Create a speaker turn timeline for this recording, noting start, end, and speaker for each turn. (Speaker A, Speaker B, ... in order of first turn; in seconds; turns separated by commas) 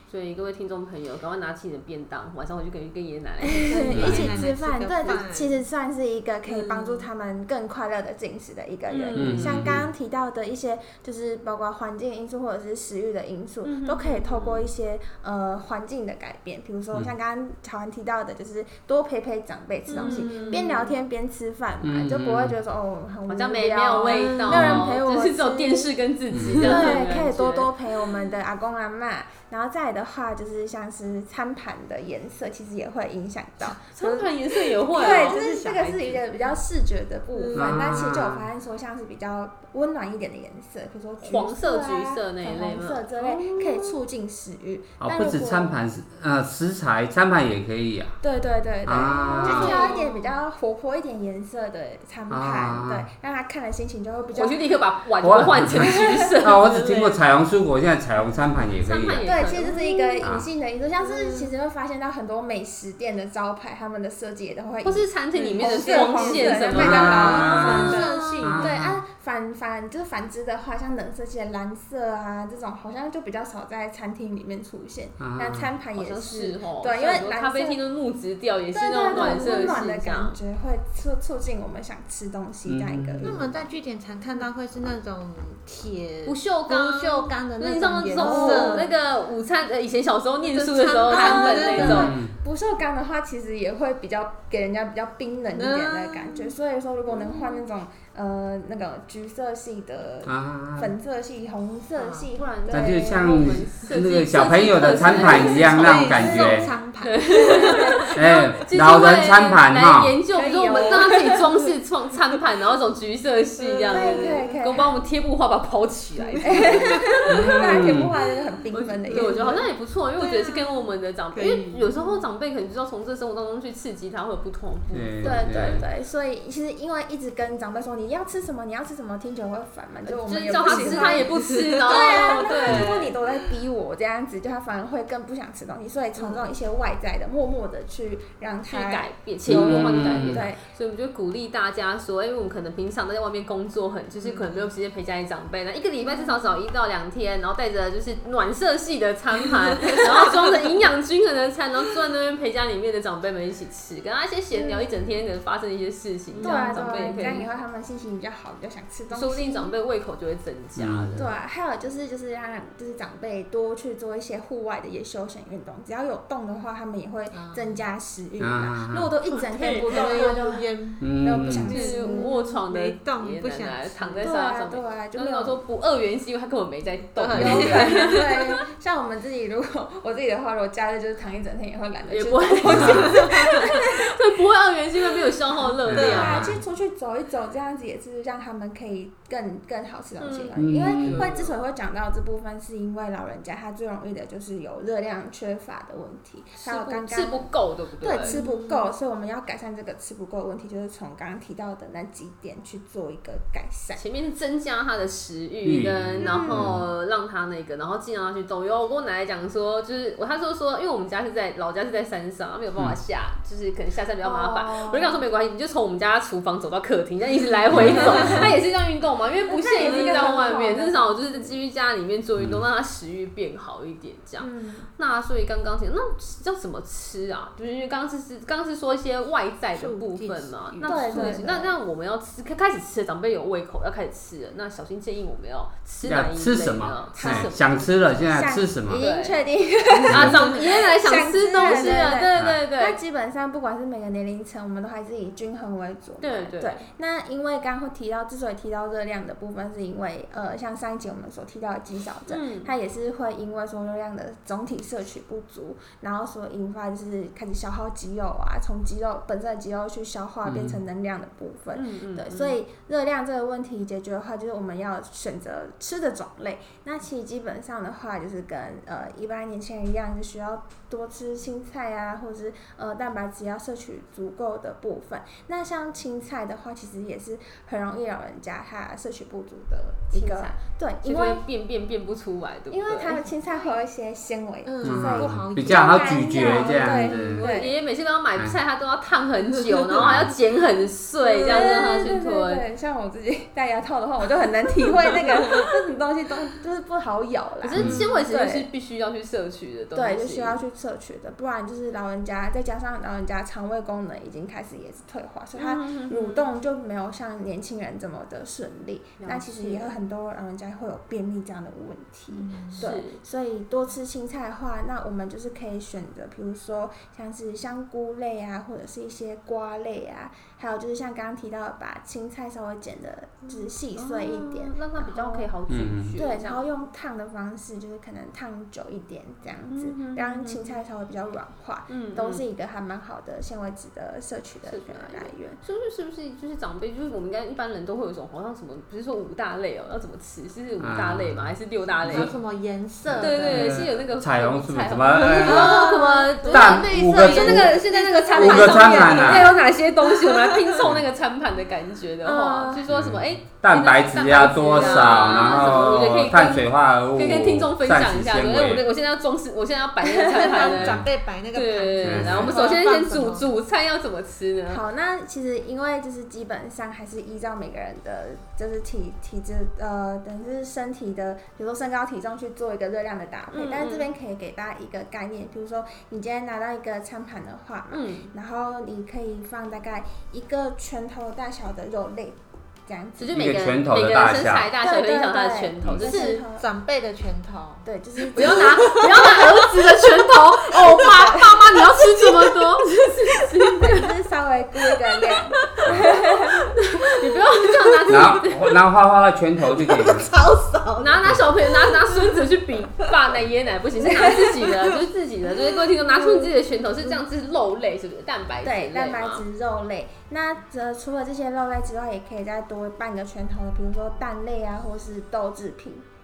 Speaker A: 0.1-4.3, Speaker B: 3.5-25.9, Speaker C: 3.6-5.6, Speaker D: 3.9-4.3, Speaker A: 6.5-7.1, Speaker A: 8.9-9.8, Speaker D: 9.2-9.9, Speaker A: 13.7-14.7, Speaker A: 19.9-20.9, Speaker C: 19.9-20.6, Speaker D: 21.8-22.6, Speaker A: 23.3-27.7, Speaker C: 24.1-24.7, Speaker D: 24.5-24.9, Speaker D: 26.3-26.6, Speaker B: 26.6-34.3, Speaker C: 26.6-27.0, Speaker A: 33.7-35.4, Speaker C: 34.9-36.5, Speaker B: 34.9-45.8, Speaker C: 37.3-37.8, Speaker D: 37.5-38.5, Speaker A: 41.2-44.0, Speaker D: 45.0-48.2, Speaker B: 48.2-54.7, Speaker D: 48.9-49.9, Speaker A: 49.4-50.3, Speaker C: 49.5-50.0, Speaker D: 52.3-53.1, Speaker A: 54.3-57.2, Speaker D: 55.2-59.3, Speaker B: 55.6-56.1, Speaker A: 58.8-59.8, Speaker B: 59.2-77.8, Speaker C: 59.6-60.3, Speaker D: 60.2-60.5, Speaker C: 61.0-61.5, Speaker A: 64.8-68.2, Speaker C: 65.3-68.8, Speaker D: 66.8-69.0, Speaker D: 75.2-75.7, Speaker A: 76.0-80.4, Speaker B: 78.7-83.6, Speaker C: 79.1-79.8, Speaker D: 82.7-83.6, Speaker C: 83.2-88.9, Speaker A: 86.3-92.1, Speaker B: 88.2-88.9, Speaker C: 90.4-92.1, Speaker B: 91.1-103.6, Speaker D: 91.8-92.3, Speaker C: 95.6-96.5, Speaker C: 97.2-97.5, Speaker D: 100.2-101.0, Speaker C: 102.0-102.3, Speaker A: 102.3-117.1, Speaker D: 102.7-106.7, Speaker C: 104.9-108.2, Speaker B: 106.0-106.7, Speaker B: 107.4-108.2, Speaker D: 108.1-110.1, Speaker C: 110.4-111.5, Speaker B: 110.4-111.3, Speaker C: 113.6-114.6, Speaker B: 113.9-115.0, Speaker B: 116.4-119.7, Speaker C: 116.5-117.0, Speaker D: 117.3-118.1, Speaker A: 118.7-125.5, Speaker C: 119.1-119.6, Speaker B: 120.2-120.7, Speaker C: 121.3-122.0, Speaker D: 124.9-125.9, Speaker B: 125.2-140.6, Speaker A: 130.1-133.1, Speaker C: 130.5-133.6, Speaker C: 136.2-136.4, Speaker A: 138.7-157.5, Speaker D: 139.5-140.5, Speaker C: 144.2-144.5, Speaker B: 154.6-154.9, Speaker C: 156.3-157.0, Speaker B: 156.4-159.7, Speaker A: 159.1-161.3, Speaker D: 160.8-161.3, Speaker B: 161.2-172.4, Speaker C: 167.3-167.8, Speaker D: 168.4-169.1, Speaker C: 169.3-174.2, Speaker A: 169.6-170.5, Speaker D: 171.0-171.7, Speaker A: 171.7-178.4, Speaker B: 174.2-175.6, Speaker C: 177.2-178.4, Speaker B: 177.3-184.0, Speaker A: 182.1-186.5, Speaker D: 182.7-183.2, Speaker C: 182.8-183.5, Speaker D: 185.9-186.6, Speaker B: 185.9-197.5, Speaker C: 185.9-186.4, Speaker A: 190.2-191.5, Speaker D: 190.6-191.4, Speaker A: 196.6-198.4, Speaker B: 198.0-204.0, Speaker C: 198.2-198.9, Speaker A: 204.0-237.9, Speaker D: 205.6-206.8, Speaker B: 206.2-206.7, Speaker B: 214.2-215.2, Speaker D: 217.7-218.5, Speaker B: 217.9-218.4, Speaker B: 219.5-221.6, Speaker C: 219.8-220.5, Speaker B: 224.4-224.9, Speaker C: 229.8-231.4, Speaker B: 230.8-231.8, Speaker D: 236.0-239.0, Speaker B: 237.2-281.4, Speaker A: 238.9-239.4, Speaker D: 240.1-240.5, Speaker A: 240.1-243.0, Speaker A: 246.2-246.9, Speaker A: 252.3-252.7, Speaker D: 260.4-260.8, Speaker A: 261.7-262.6, Speaker A: 280.1-280.5, Speaker A: 281.0-283.2, Speaker B: 282.7-287.7, Speaker C: 284.6-287.0, Speaker D: 284.8-287.4, Speaker A: 286.9-292.6, Speaker C: 289.6-290.1, Speaker D: 290.0-290.3, Speaker B: 291.4-298.7, Speaker A: 297.6-300.6, Speaker D: 297.8-298.0, Speaker B: 299.9-325.5, Speaker A: 305.6-306.5, Speaker A: 309.2-310.0, Speaker C: 312.3-312.9, Speaker A: 312.8-313.2, Speaker A: 323.5-326.7, Speaker D: 325.7-326.1, Speaker B: 326.1-335.6, Speaker A: 329.7-330.8, Speaker A: 331.9-332.4, Speaker A: 334.7-342.3, Speaker D: 340.8-342.3, Speaker C: 342.0-343.8, Speaker A: 343.2-364.8, Speaker D: 343.3-345.9, Speaker C: 345.2-349.7, Speaker D: 346.5-349.5, Speaker B: 352.2-352.8, Speaker D: 352.9-358.9, Speaker C: 354.8-355.2, Speaker C: 360.2-363.5, Speaker D: 360.7-361.1, Speaker D: 362.0-362.6, Speaker B: 364.7-383.4, Speaker A: 373.5-374.1, Speaker A: 377.9-378.3, Speaker A: 383.2-386.4, Speaker D: 383.3-384.7, Speaker B: 384.8-386.7, Speaker D: 385.8-386.1, Speaker C: 386.2-389.6, Speaker B: 387.9-389.4, Speaker A: 388.3-394.1, Speaker C: 390.8-392.5, Speaker B: 390.9-391.4, Speaker B: 393.8-396.6, Speaker D: 395.9-396.1, Speaker C: 396.3-396.6, Speaker A: 396.7-398.6, Speaker D: 398.1-400.3, Speaker C: 399.7-402.4, Speaker A: 401.0-409.4, Speaker B: 404.1-404.5, Speaker C: 404.2-404.8, Speaker C: 406.0-406.5, Speaker B: 408.6-416.1